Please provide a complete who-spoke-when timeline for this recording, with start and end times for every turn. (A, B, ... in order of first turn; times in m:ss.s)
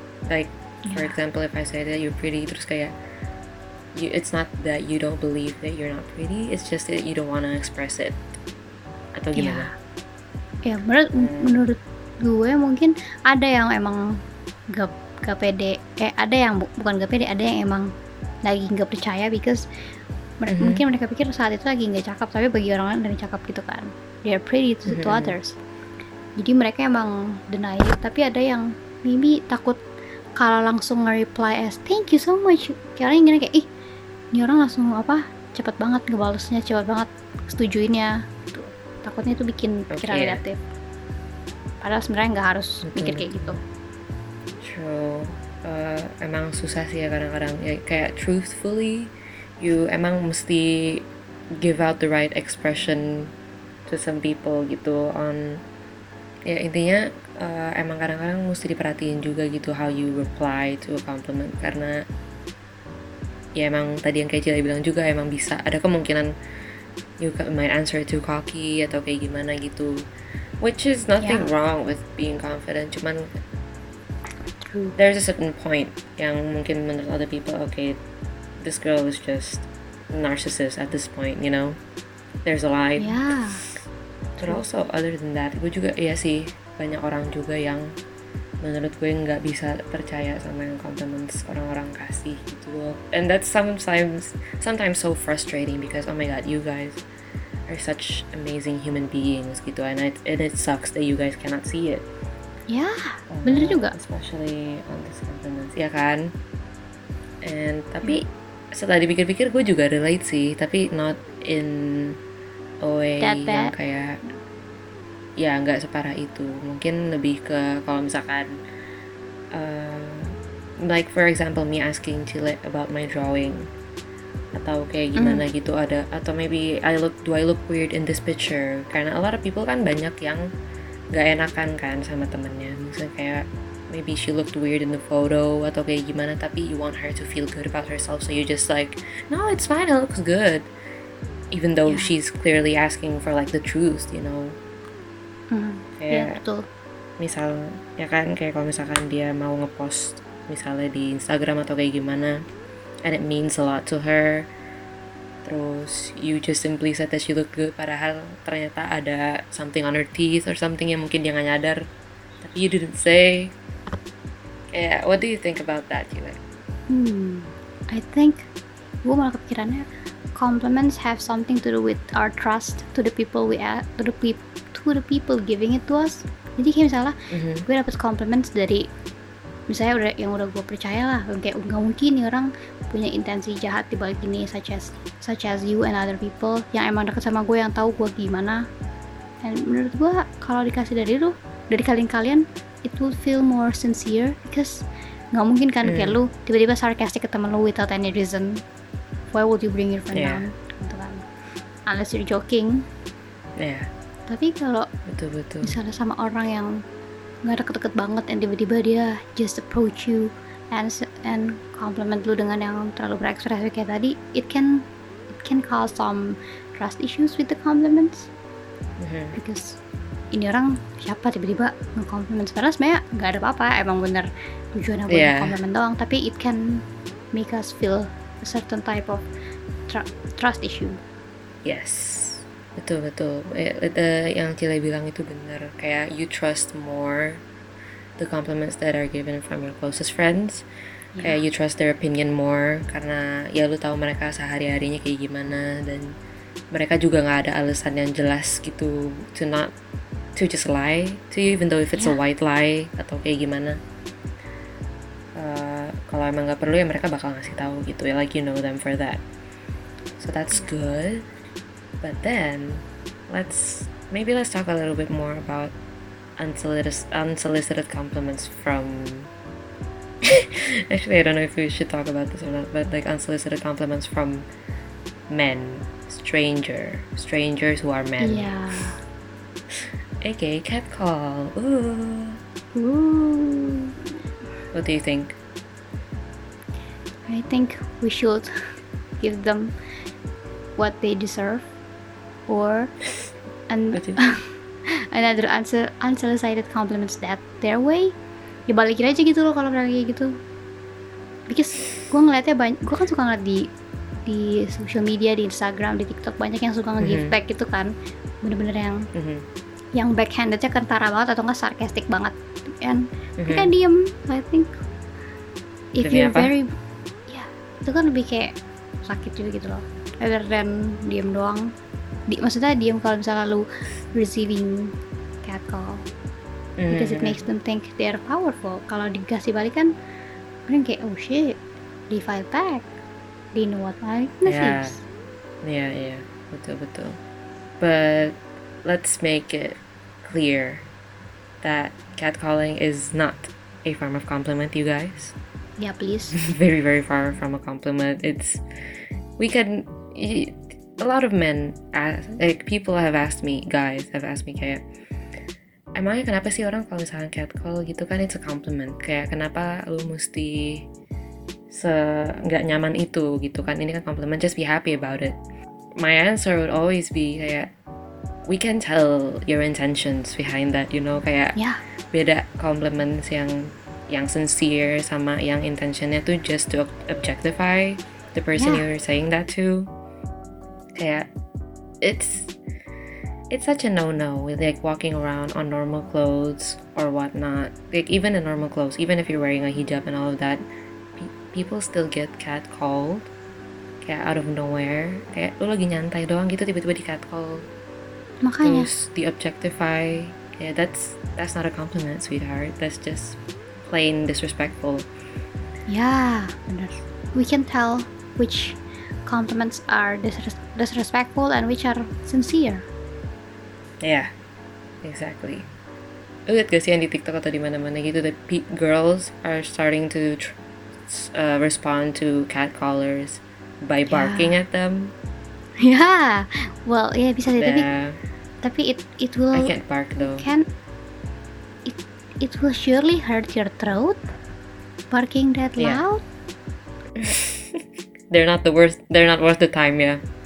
0:00.3-0:02.9 A
0:00.8-0:01.2 B
0:03.9-0:08.2 A
0:09.2-0:09.7 A
0:09.4-0:09.7 B
0:10.6-0:14.2 B
0:11.2-0:11.6 A
0:14.7-0:17.9 B
0:18.4-0:19.6 B
0:20.4-0:25.6 B
0:20.5-0:20.8 A
0:24.9-0:25.4 A
0:26.4-0:29.8 B
0:30.4-0:33.7 B
0:34.3-0:40.6 B
0:39.9-0:40.4 A
0:41.8-0:43.6 B
0:42.8-0:43.5 A
0:44.6-0:53.3 A
0:53.9-0:55.6 A
0:56.5-1:02.0 A
1:03.6-1:06.3 A
1:07.2-1:10.1 A
1:10.6-1:13.4 A
1:11.2-1:11.5 B
1:14.6-1:15.0 B
1:15.0-1:18.0 A
1:18.6-1:21.8 A
1:22.4-1:23.2 A
1:23.0-1:23.6 B
1:24.4-1:28.0 A
1:28.6-1:37.0 A
1:37.7-1:42.1 A
1:42.7-1:44.0 B
1:43.3-1:46.3 A
1:47.4-1:52.2 A
1:52.8-1:54.2 A
1:53.2-1:53.7 B
1:55.4-1:58.5 A
1:59.5-2:03.7 A
2:04.6-2:10.5 A
2:05.2-2:05.4 B
2:11.1-2:20.7 A
2:21.5-2:24.6 A
2:21.9-2:22.1 B
2:25.5-2:26.7 B
2:26.0-2:26.4 A
2:27.2-2:32.4 A
2:33.0-2:34.5 A
2:35.4-2:41.8 A
2:42.4-2:43.6 A
2:44.7-2:46.4 A
2:46.9-2:48.5 B
2:49.0-2:58.9 B
2:57.3-2:57.7 A
2:59.7-3:08.7 B
3:09.4-3:18.6 B
3:15.8-3:16.2 A
3:19.3-3:21.2 B
3:20.1-3:20.5 A
3:21.9-3:22.8 B
3:23.6-3:23.9 A
3:24.3-3:24.9 B
3:25.1-3:25.8 A
3:25.6-3:26.8 B
3:27.4-3:34.9 B
3:35.4-3:38.3 B
3:39.0-3:39.4 A
3:39.3-3:39.8 B
3:40.3-3:49.2 B
3:45.1-3:45.6 A
3:49.9-3:51.0 B
3:51.6-3:57.4 A
3:58.2-4:00.7 A
4:01.2-4:01.4 B
4:01.2-4:06.2 A
4:06.7-4:09.7 A
4:10.4-4:13.8 A
4:11.9-4:12.2 B
4:15.4-4:19.2 A
4:20.2-4:21.3 A
4:22.0-4:25.8 A
4:26.4-4:29.3 A
4:30.2-4:34.5 A
4:35.3-4:38.6 A
4:38.2-4:39.0 B
4:39.8-4:42.4 A
4:42.8-4:43.9 B
4:44.7-4:45.4 A
4:47.3-4:48.5 B
4:49.2-4:49.7 B
4:50.8-4:51.7 B
4:52.5-4:52.9 B
4:53.7-4:58.1 B
4:53.9-4:54.2 A
4:58.7-5:00.4 B
5:01.5-5:03.7 B
5:04.3-5:09.1 B
5:07.0-5:07.3 A
5:09.1-5:09.5 A
5:10.0-5:14.8 B
5:13.4-5:13.7 A
5:15.9-5:16.7 B
5:16.0-5:16.5 A
5:17.3-5:21.7 B
5:22.3-5:24.9 B
5:25.4-5:26.0 B
5:26.8-5:27.4 A
5:26.9-5:29.9 B
5:30.7-5:32.9 B
5:33.6-5:35.0 B
5:34.5-5:35.0 A
5:35.6-5:37.2 A
5:37.8-5:40.8 A
5:41.6-5:45.4 A
5:45.8-5:46.4 B
5:46.4-5:48.6 A
5:49.4-5:54.8 A
5:56.0-6:00.9 A
6:01.7-6:05.4 A
6:06.0-6:07.7 A
6:08.5-6:11.6 A
6:12.1-6:19.9 A
6:18.6-6:18.8 B
6:21.0-6:21.3 A
6:22.0-6:22.6 A
6:23.5-6:30.6 A
6:31.2-6:33.3 A
6:34.0-6:37.7 A
6:38.4-6:38.9 B
6:38.6-6:45.1 A
6:45.9-6:52.9 B
6:54.0-6:54.3 A
6:55.0-6:55.7 A
6:56.5-7:00.6 A
7:01.1-7:05.1 A
7:04.1-7:04.6 B
7:05.8-7:07.9 B
7:07.6-7:08.2 A
7:08.6-7:10.7 B
7:09.5-7:10.5 A
7:11.8-7:14.2 B
7:15.1-7:16.2 B
7:15.8-7:16.0 A
7:17.2-7:20.2 A